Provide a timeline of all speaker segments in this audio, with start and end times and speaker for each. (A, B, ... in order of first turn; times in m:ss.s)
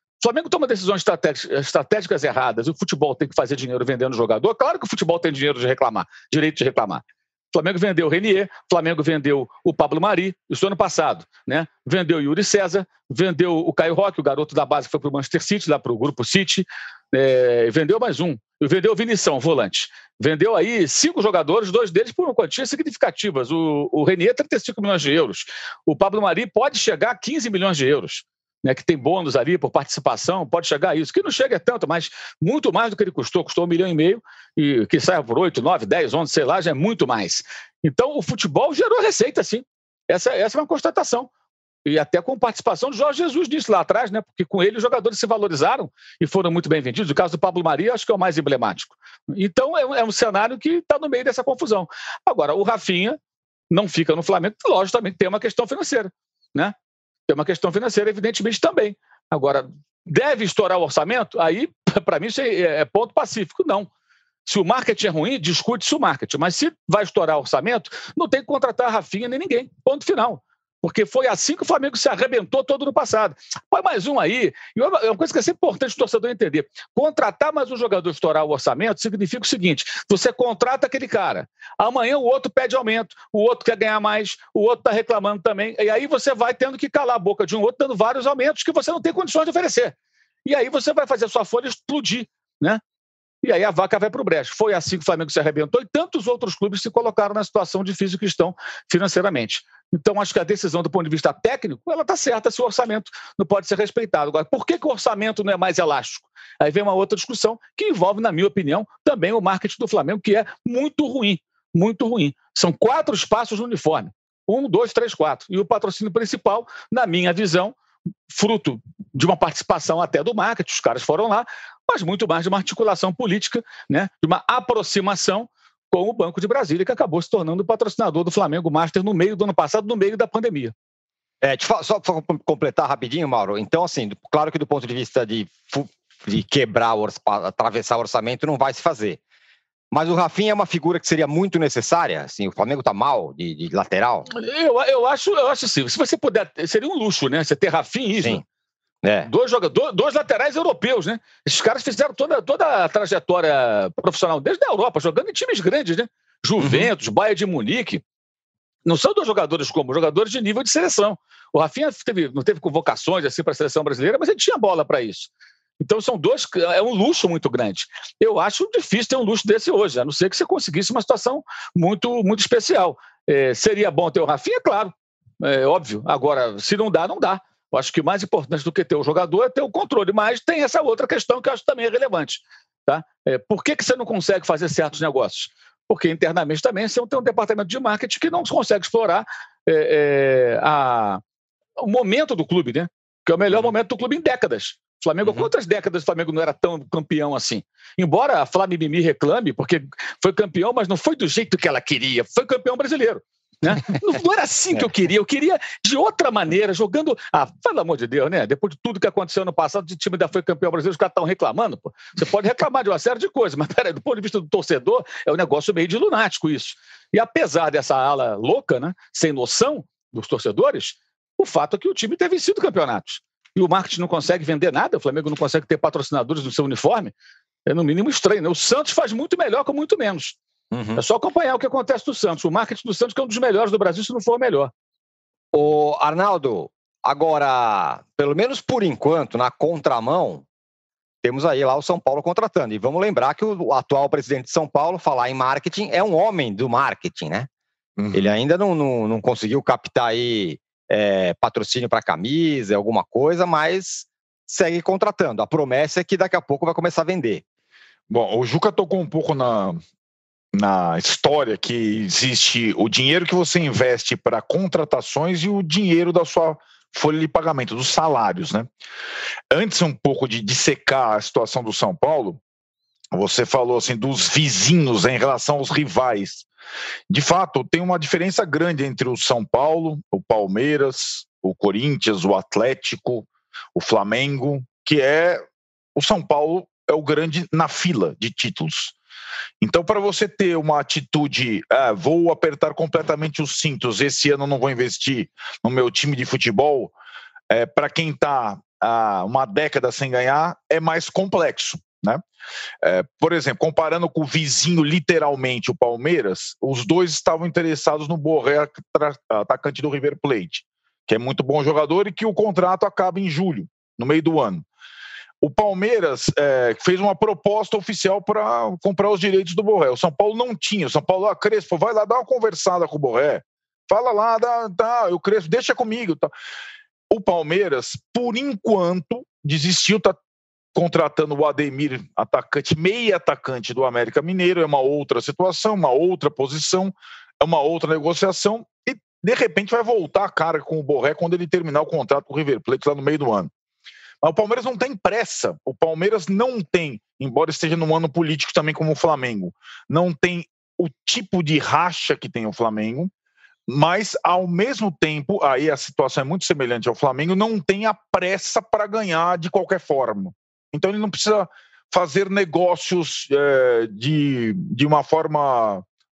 0:00.2-0:41.3 A
0:41.8-0:53.2 A
0:53.7-0:56.7 A
0:57.3-1:03.9 A
1:04.5-1:32.8 A
1:33.4-1:57.8 A
1:58.3-2:10.7 A
2:11.4-2:19.2 B
2:19.9-2:24.3 B
2:24.3-2:28.4 A
2:28.2-2:28.4 B
2:29.0-2:29.3 B
2:29.2-2:38.0 A
2:36.6-2:36.9 B
2:38.8-3:11.2 A
3:11.8-3:47.1 A
3:15.2-3:15.5 B
3:47.7-3:50.4 A
3:50.7-3:51.0 B
3:51.0-3:54.7 A
3:55.5-4:00.4 B
4:01.2-4:07.5 B
4:08.0-4:08.4 C
4:08.1-4:17.4 B
4:18.1-4:19.8 C
4:20.5-4:28.7 C
4:29.5-4:32.4 C
4:33.1-4:36.5 C
4:37.1-4:45.4 C
4:46.0-4:49.0 C
4:49.6-4:56.9 C
4:57.5-5:02.2 C
5:02.8-5:14.6 C
5:15.4-5:26.3 C
5:27.1-5:30.2 C
5:30.8-5:43.5 C
5:44.2-5:53.1 C
5:53.7-6:05.8 C